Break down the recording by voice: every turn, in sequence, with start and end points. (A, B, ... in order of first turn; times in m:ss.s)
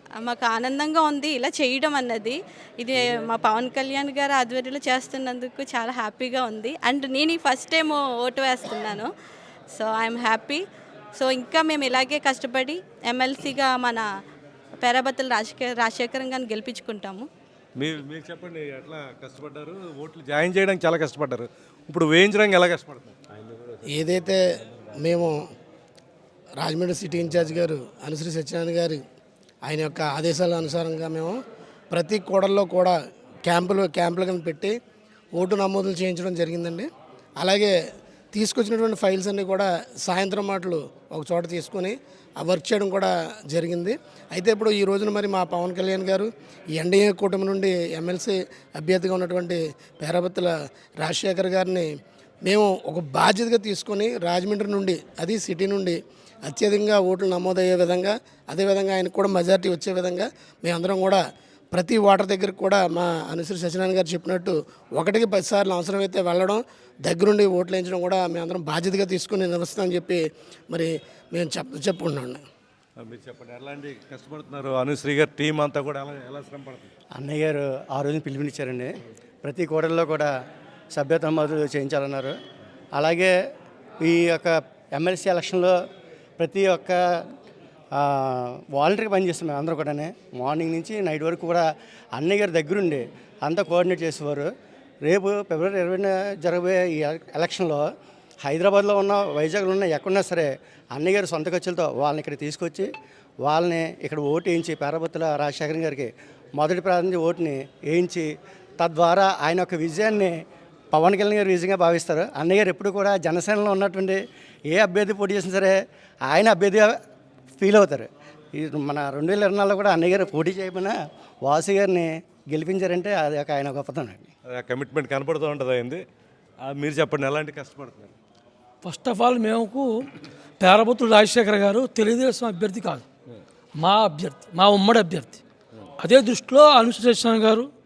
0:00.2-0:09.1 A
0:09.7-0:10.6 A
0:11.2-0:14.0 A
0:14.8-0:17.3 A
0:17.8-0:23.2 B
0:23.9-0:24.4 C
0:24.9-0:25.4 C
0:26.6-0:29.0 C
0:29.6-0:31.4 C
0:31.9-0:34.8 C
0:35.4-0:37.7 C
0:38.3-0:51.9 C
0:52.4-1:01.2 C
1:01.7-1:12.4 C
1:13.0-1:16.9 B
1:17.2-1:18.9 D
1:19.4-1:20.3 D
1:21.0-1:22.4 D
1:23.0-1:23.3 D
1:24.0-1:25.7 D
1:26.4-1:27.0 D
1:28.0-1:31.6 D
1:32.2-1:34.5 D
1:35.0-1:37.8 D
1:38.4-1:42.9 D
1:43.4-1:48.3 D
1:48.8-1:50.4 D
1:50.9-1:55.8 D
1:56.3-1:57.0 D
1:57.6-2:04.3 D
2:04.5-2:06.0 B
2:06.6-2:08.1 B
2:08.8-2:10.0 E
2:10.6-2:13.0 E
2:13.8-2:15.4 E
2:16.0-2:17.7 E